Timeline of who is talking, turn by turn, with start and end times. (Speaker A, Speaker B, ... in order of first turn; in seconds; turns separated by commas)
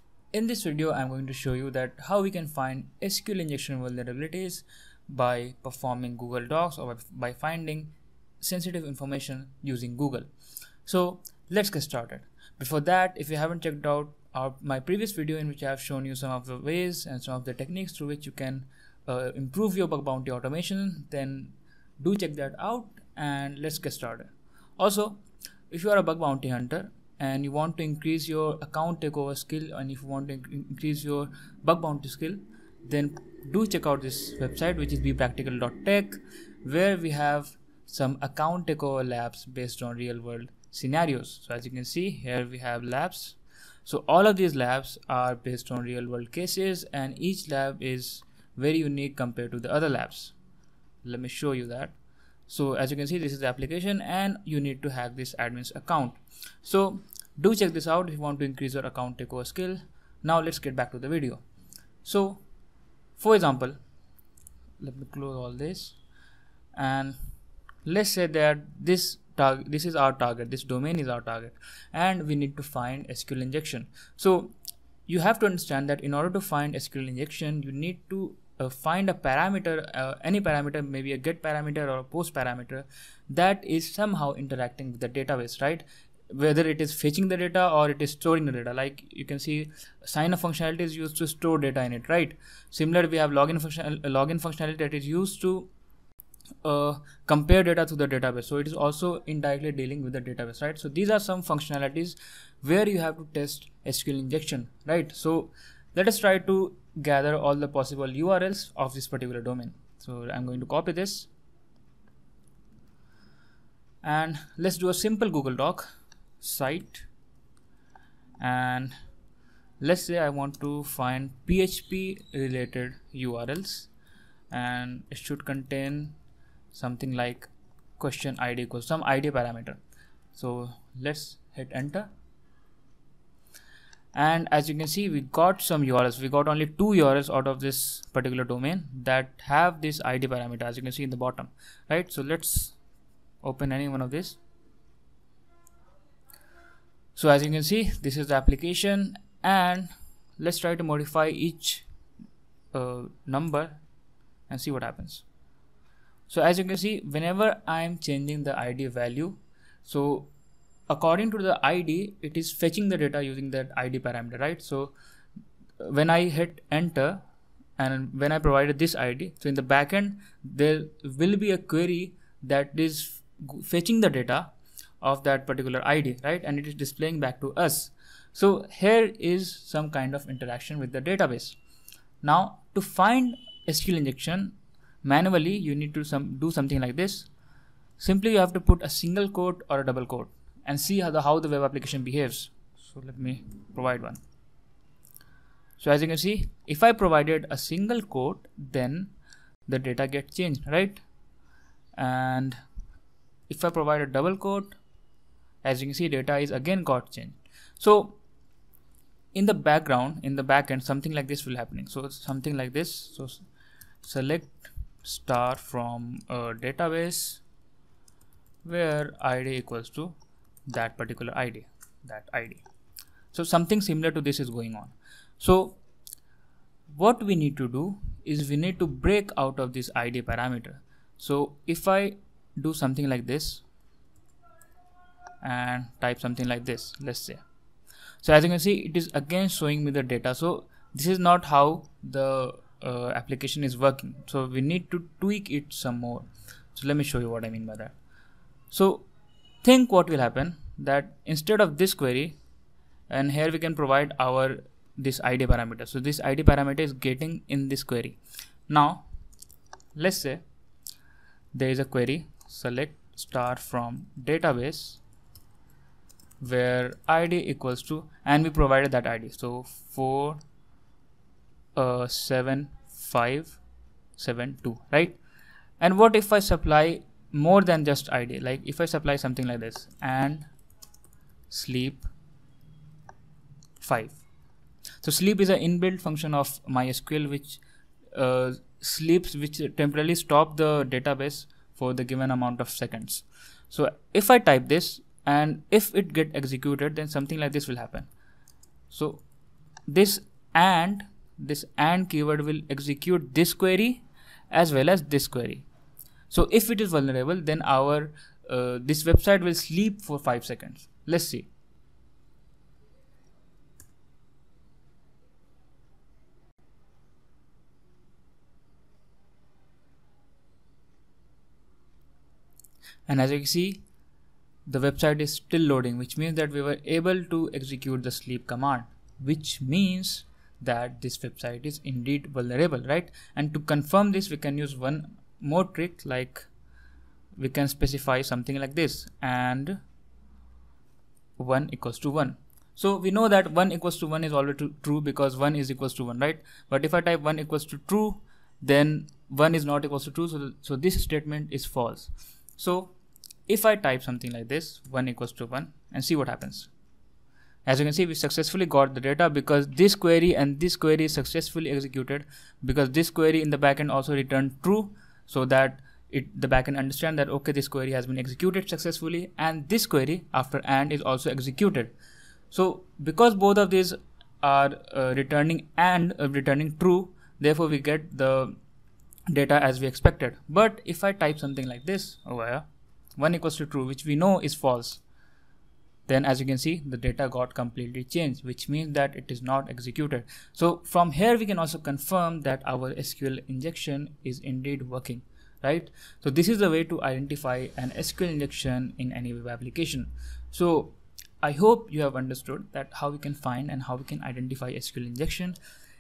Speaker A: 0.3-10.3, Speaker A: 10.9-25.2, Speaker A: 25.7-50.4, Speaker A: 51.0-52.0, Speaker A: 52.5-61.4, Speaker A: 62.0-62.4, Speaker A: 63.2-63.8, Speaker A: 64.8-66.0, Speaker A: 66.8-67.2, Speaker A: 67.8-74.5, Speaker A: 75.1-95.7, Speaker A: 96.6-111.3, Speaker A: 114.0-115.9, Speaker A: 116.4-117.1, Speaker A: 118.4-118.9, Speaker A: 119.8-123.9, Speaker A: 124.5-126.2, Speaker A: 126.7-129.8, Speaker A: 130.3-132.1, Speaker A: 134.1-142.8, Speaker A: 143.4-144.4, Speaker A: 147.2-151.9, Speaker A: 152.7-153.8, Speaker A: 154.5-155.2, Speaker A: 156.3-160.3, Speaker A: 160.9-164.9, Speaker A: 165.8-167.2, Speaker A: 167.8-181.6, Speaker A: 182.2-187.3, Speaker A: 188.0-194.2, Speaker A: 195.8-199.1, Speaker A: 199.7-201.0, Speaker A: 201.9-202.6, Speaker A: 203.5-204.8, Speaker A: 205.6-208.2, Speaker A: 209.3-213.4, Speaker A: 214.0-217.4, Speaker A: 218.7-220.2, Speaker A: 220.7-222.6, Speaker A: 223.3-225.8, Speaker A: 226.9-233.6, Speaker A: 235.4-237.4, Speaker A: 238.2-247.9, Speaker A: 248.7-249.1, Speaker A: 249.6-252.4, Speaker A: 253.1-259.1, Speaker A: 259.9-260.4, Speaker A: 261.5-265.0, Speaker A: 266.4-270.4, Speaker A: 271.8-273.6, Speaker A: 274.2-275.2, Speaker A: 275.8-280.5, Speaker A: 281.5-282.1, Speaker A: 283.8-284.2, Speaker A: 285.0-298.1, Speaker A: 298.9-299.2, Speaker A: 299.9-305.7, Speaker A: 306.3-311.5, Speaker A: 323.1-323.8, Speaker A: 324.7-336.5, Speaker A: 337.4-339.8, Speaker A: 341.4-352.9, Speaker A: 353.5-356.7, Speaker A: 357.7-371.9, Speaker A: 372.5-378.6, Speaker A: 379.3-382.7, Speaker A: 383.2-385.0, Speaker A: 386.1-405.6